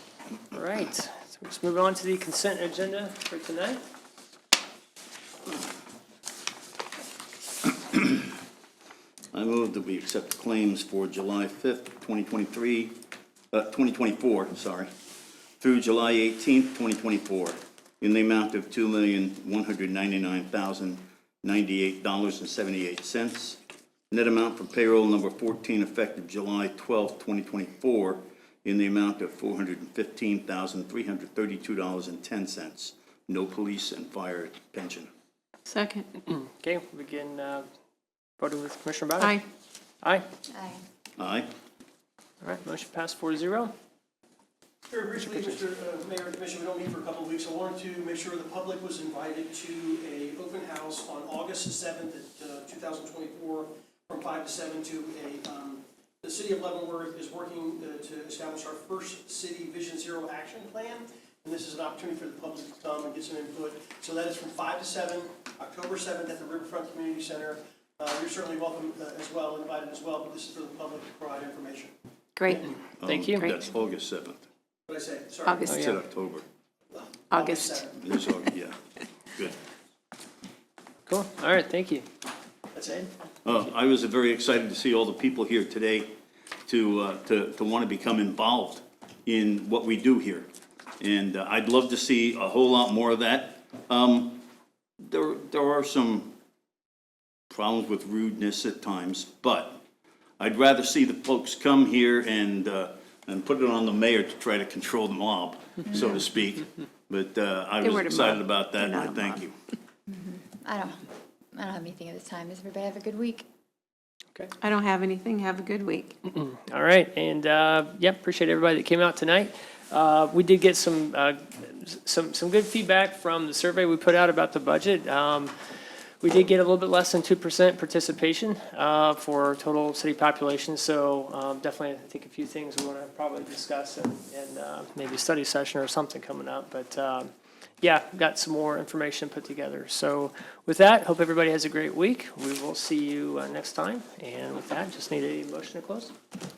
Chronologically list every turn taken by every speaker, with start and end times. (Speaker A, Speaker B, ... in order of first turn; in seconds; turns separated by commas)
Speaker A: 0.5-3.8, Speaker B: 7.9-8.2, Speaker B: 9.3-12.9, Speaker B: 13.5-14.9, Speaker B: 15.6-23.6, Speaker B: 24.1-35.1, Speaker C: 35.7-36.1, Speaker A: 36.3-37.7, Speaker A: 38.4-39.4, Speaker C: 39.2-39.4, Speaker D: 40.5-40.8, Speaker B: 41.2-41.5, Speaker A: 42.4-43.7, Speaker E: 44.9-71.9, Speaker C: 72.4-72.7, Speaker B: 73.0-74.4, Speaker A: 73.0-73.5, Speaker E: 74.9-75.7, Speaker C: 75.4-76.0, Speaker B: 75.6-76.4, Speaker A: 75.7-76.0, Speaker E: 76.9-78.0, Speaker C: 77.3-77.8, Speaker B: 78.0-78.8, Speaker A: 81.1-82.0, Speaker E: 82.7-83.1, Speaker B: 83.4-86.1, Speaker B: 86.7-90.5, Speaker B: 91.0-94.4, Speaker B: 95.0-96.3, Speaker B: 97.5-99.8, Speaker B: 100.4-109.5, Speaker C: 107.8-109.3, Speaker D: 110.1-111.0, Speaker D: 111.5-113.5, Speaker C: 114.6-116.1, Speaker A: 116.3-125.5, Speaker A: 126.2-137.3, Speaker A: 137.8-146.1